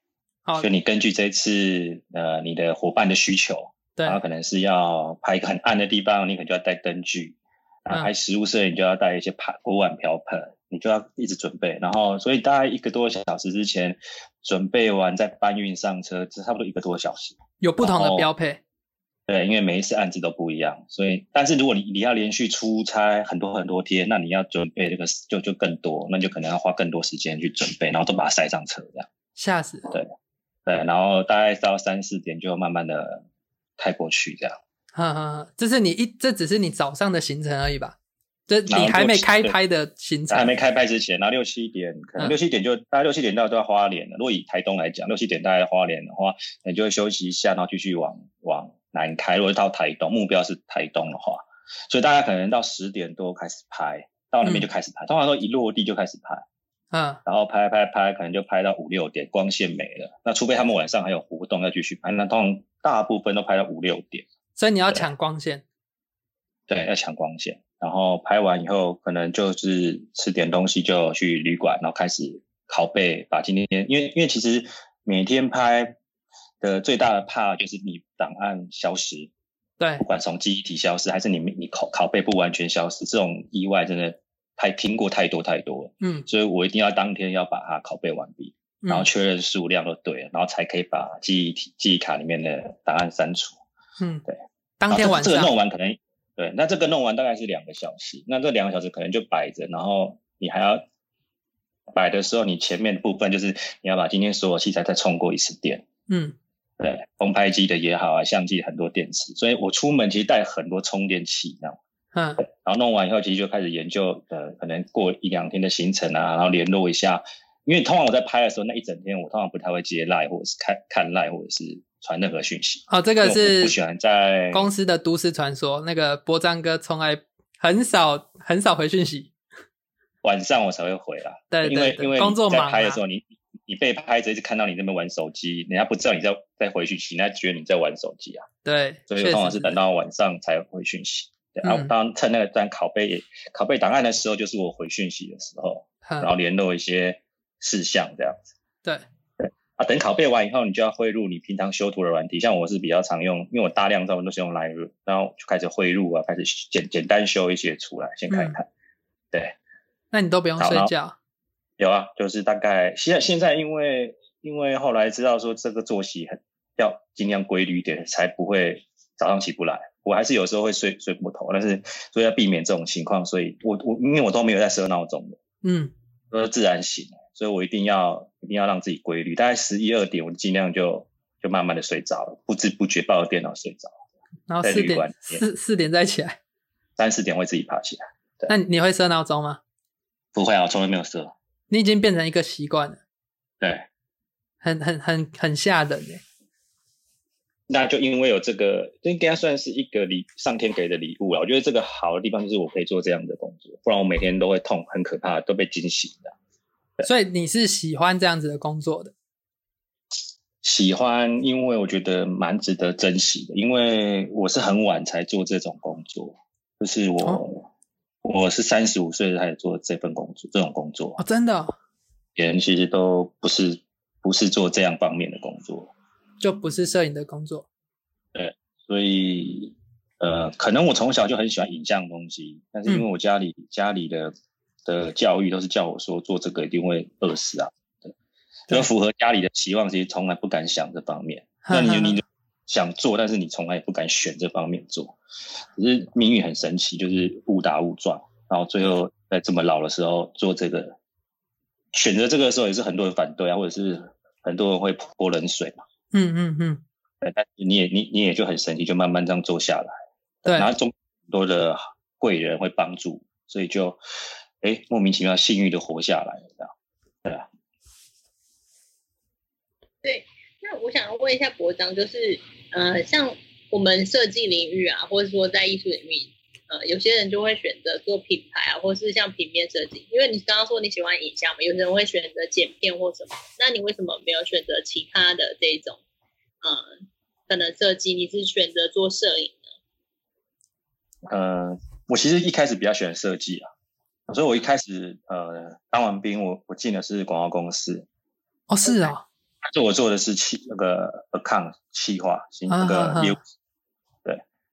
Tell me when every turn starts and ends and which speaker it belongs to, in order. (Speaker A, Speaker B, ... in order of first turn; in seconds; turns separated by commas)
Speaker A: 0.6-18.3, Speaker B: 17.6-18.6, Speaker A: 19.3-29.1, Speaker B: 29.4-29.9, Speaker A: 30.6-33.2, Speaker A: 33.8-34.6, Speaker B: 34.9-38.0, Speaker B: 38.5-40.5, Speaker A: 38.7-39.5, Speaker A: 40.3-56.4, Speaker B: 56.9-57.2, Speaker A: 57.2-64.2, Speaker B: 64.6-65.6, Speaker A: 66.7-76.0, Speaker A: 76.6-79.3, Speaker B: 79.8-80.0, Speaker A: 80.0-93.6, Speaker B: 86.0-86.2, Speaker B: 88.8-89.1, Speaker B: 94.0-94.2, Speaker B: 94.8-95.5, Speaker A: 94.9-100.8, Speaker A: 101.9-105.8, Speaker B: 106.1-106.3, Speaker A: 106.8-111.8, Speaker B: 112.1-112.4, Speaker A: 112.4-124.7, Speaker B: 122.9-123.8, Speaker B: 124.5-129.3, Speaker A: 130.2-138.5, Speaker B: 131.5-133.0, Speaker B: 138.6-139.8, Speaker A: 139.1-148.4, Speaker B: 141.6-141.9, Speaker B: 146.0-146.3, Speaker A: 149.4-158.7, Speaker B: 158.3-158.6, Speaker B: 160.1-161.1, Speaker A: 160.6-160.9, Speaker A: 161.8-175.4, Speaker B: 175.6-175.9, Speaker A: 176.3-183.9, Speaker B: 184.5-186.4, Speaker A: 184.6-185.4, Speaker A: 187.0-188.5, Speaker B: 188.5-189.6, Speaker A: 190.3-191.3, Speaker B: 191.7-193.0, Speaker A: 193.6-193.9, Speaker B: 194.6-196.2, Speaker A: 197.7-206.3, Speaker B: 207.0-209.1, Speaker A: 210.6-217.7, Speaker A: 218.2-221.2, Speaker B: 221.2-221.7, Speaker A: 222.3-225.9, Speaker B: 226.4-227.7, Speaker A: 228.3-234.3, Speaker A: 234.8-238.1, Speaker A: 238.7-245.2, Speaker B: 241.6-242.2, Speaker A: 245.7-250.9, Speaker A: 251.9-255.8, Speaker B: 256.1-256.8, Speaker A: 257.2-264.0, Speaker A: 264.6-266.7, Speaker C: 270.0-286.0, Speaker C: 286.6-286.9, Speaker C: 287.5-289.6, Speaker A: 291.2-293.7, Speaker A: 294.3-298.1, Speaker B: 298.7-299.2, Speaker A: 299.7-303.4, Speaker B: 302.7-303.4